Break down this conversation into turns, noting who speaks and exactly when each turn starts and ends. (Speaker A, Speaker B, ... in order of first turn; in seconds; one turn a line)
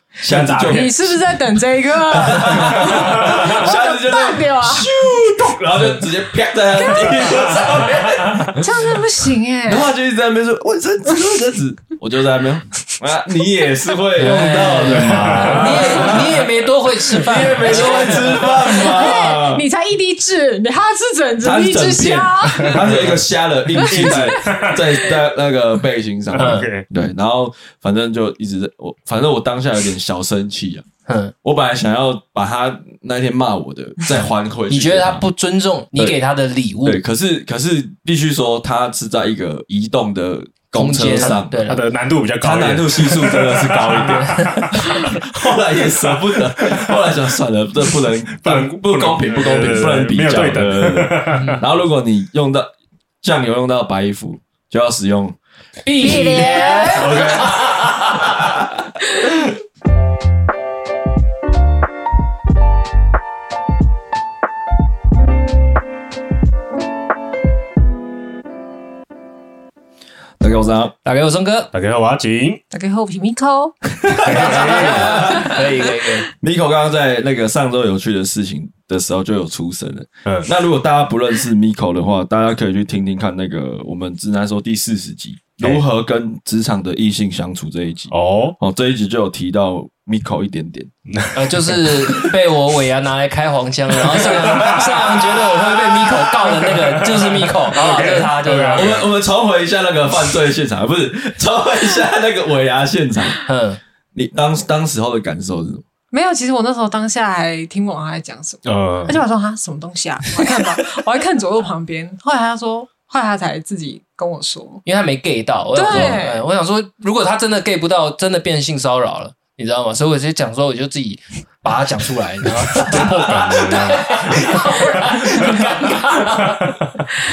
Speaker A: 0.2-1.2
Speaker B: 0.3-1.0
Speaker C: 0.7-4.9
Speaker A: 2.1-8.7
Speaker B: 2.8-3.5
Speaker C: 6.7-7.7
Speaker B: 7.9-8.6
Speaker C: 8.5-9.9
Speaker A: 9.7-16.5
Speaker D: 14.2-18.4
Speaker B: 14.9-16.3
Speaker A: 17.0-19.6
Speaker C: 17.5-23.0
Speaker A: 21.4-30.8
Speaker B: 22.6-23.1
Speaker C: 23.7-25.2
Speaker B: 23.7-24.8
Speaker B: 26.3-26.9
Speaker D: 26.3-26.7
Speaker D: 31.1-31.3
Speaker A: 31.4-35.2
Speaker D: 34.7-37.0
Speaker A: 36.8-41.6
Speaker D: 40.7-41.8
Speaker B: 41.1-45.0
Speaker A: 42.4-52.7
Speaker D: 43.9-44.9
Speaker B: 48.3-51.5
Speaker D: 51.3-51.6
Speaker A: 53.2-55.4
Speaker D: 55.8-57.9
Speaker C: 56.0-57.5
Speaker B: 56.9-58.3
Speaker A: 70.4-70.9
Speaker D: 71.0-71.7
Speaker B: 71.7-72.6
Speaker C: 72.7-75.6
Speaker A: 74.1-75.6
Speaker B: 74.2-75.3
Speaker D: 74.6-76.3
Speaker A: 76.4-90.9
Speaker B: 88.1-88.5
Speaker B: 91.1-91.9
Speaker D: 91.3-99.0
Speaker A: 94.1-96.2
Speaker B: 94.5-94.9
Speaker B: 97.1-99.0
Speaker A: 98.7-103.4
Speaker D: 103.5-103.8
Speaker A: 104.1-105.8
Speaker C: 106.1-114.8
Speaker B: 108.6-109.2
Speaker D: 114.8-126.5
Speaker C: 115.7-116.4
Speaker A: 122.8-124.5
Speaker B: 122.9-125.2